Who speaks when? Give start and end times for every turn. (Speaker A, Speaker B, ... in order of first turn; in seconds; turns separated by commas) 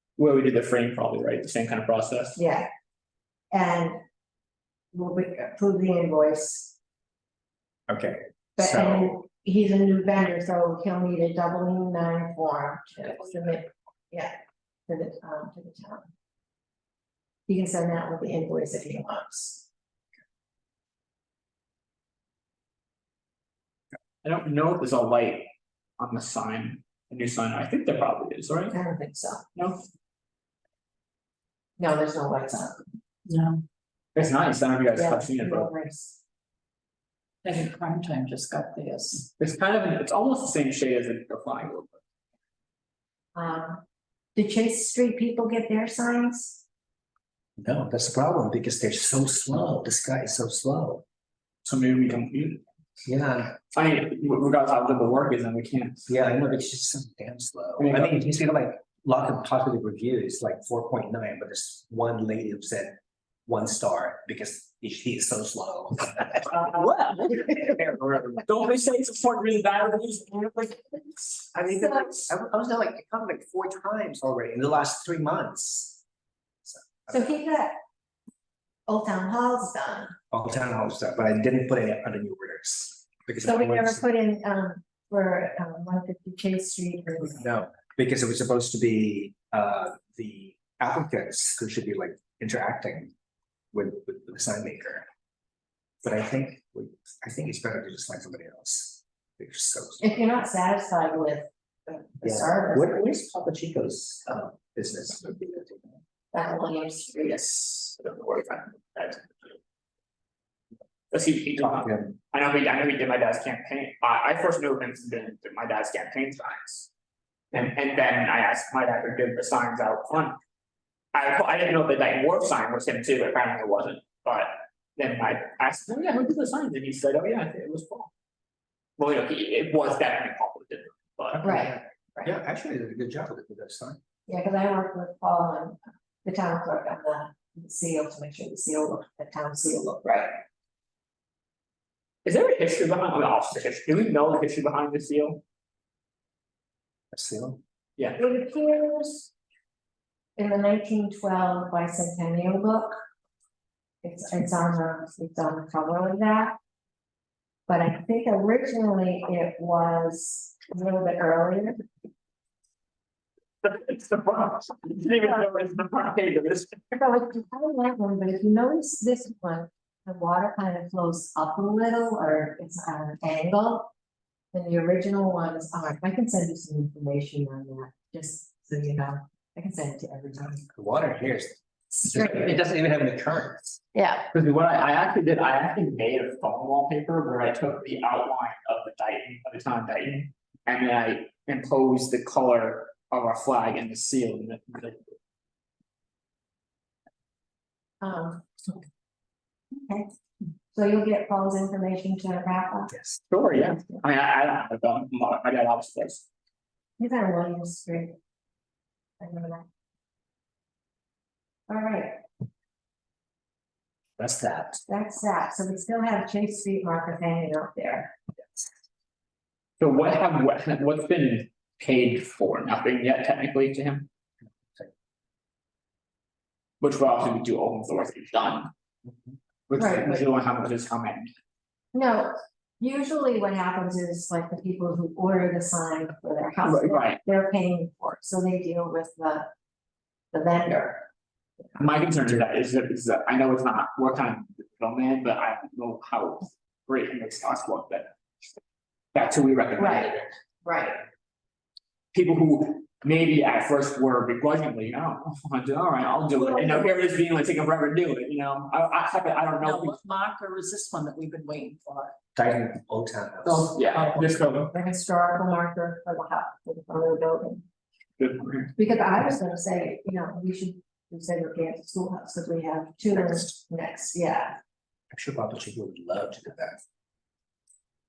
Speaker A: 0.2-2.4, Speaker B: 2.4-2.7, Speaker B: 3.5-4.0, Speaker B: 4.9-6.8, Speaker C: 7.9-9.2, Speaker B: 8.6-14.4, Speaker B: 14.9-16.1, Speaker B: 17.5-19.7, Speaker A: 24.2-28.8, Speaker B: 28.7-29.4, Speaker A: 29.6-29.8, Speaker B: 31.8-32.9, Speaker D: 33.3-33.6, Speaker A: 34.1-35.7, Speaker B: 35.0-36.2, Speaker D: 37.4-39.3, Speaker A: 39.4-42.0, Speaker B: 43.4-43.8, Speaker B: 44.4-46.6, Speaker C: 47.6-51.0, Speaker A: 51.6-52.6, Speaker C: 53.1-53.6, Speaker A: 53.7-56.1, Speaker C: 56.1-66.7, Speaker A: 57.8-58.2, Speaker A: 66.5-71.4, Speaker C: 71.5-76.0, Speaker C: 76.7-77.2, Speaker B: 77.1-77.8, Speaker B: 78.9-80.2, Speaker C: 80.3-84.0, Speaker B: 83.4-87.5, Speaker C: 87.3-93.1, Speaker C: 93.7-95.1, Speaker C: 96.0-100.2, Speaker B: 100.0-103.0, Speaker C: 102.2-105.9, Speaker B: 106.3-107.4, Speaker A: 107.2-109.5, Speaker A: 111.1-116.9, Speaker C: 111.6-112.0, Speaker A: 117.5-120.4, Speaker A: 121.1-128.1, Speaker A: 129.0-131.5, Speaker C: 131.3-134.0, Speaker B: 131.4-132.3, Speaker B: 134.3-140.4, Speaker A: 142.2-145.4, Speaker C: 147.1-147.6, Speaker A: 148.0-148.3, Speaker B: 148.2-149.3, Speaker B: 150.4-153.0, Speaker B: 154.0-156.6, Speaker B: 157.7-161.8, Speaker A: 163.6-166.9, Speaker B: 167.0-173.9, Speaker B: 174.5-180.7, Speaker C: 180.7-183.8, Speaker B: 182.1-182.5, Speaker B: 183.9-184.3, Speaker A: 184.3-195.0, Speaker B: 198.0-198.8, Speaker B: 199.7-200.1, Speaker B: 200.7-202.9, Speaker A: 203.3-206.2, Speaker B: 207.0-208.2, Speaker B: 209.2-209.7, Speaker B: 211.7-212.2, Speaker C: 214.2-214.8, Speaker B: 214.9-218.1, Speaker A: 219.8-224.1, Speaker A: 226.8-228.7, Speaker A: 229.7-231.3, Speaker B: 229.8-230.2, Speaker B: 231.9-239.5, Speaker A: 236.6-237.2, Speaker B: 240.3-241.1, Speaker A: 241.8-248.1, Speaker A: 249.1-250.4, Speaker B: 249.8-250.1, Speaker B: 250.6-251.0, Speaker A: 252.1-259.9, Speaker B: 256.4-256.9, Speaker D: 259.6-262.1, Speaker C: 262.4-263.8, Speaker D: 263.5-264.7, Speaker A: 263.5-264.7, Speaker B: 264.7-267.6, Speaker A: 268.2-268.7, Speaker B: 268.8-274.6, Speaker C: 273.1-273.6, Speaker C: 275.1-276.8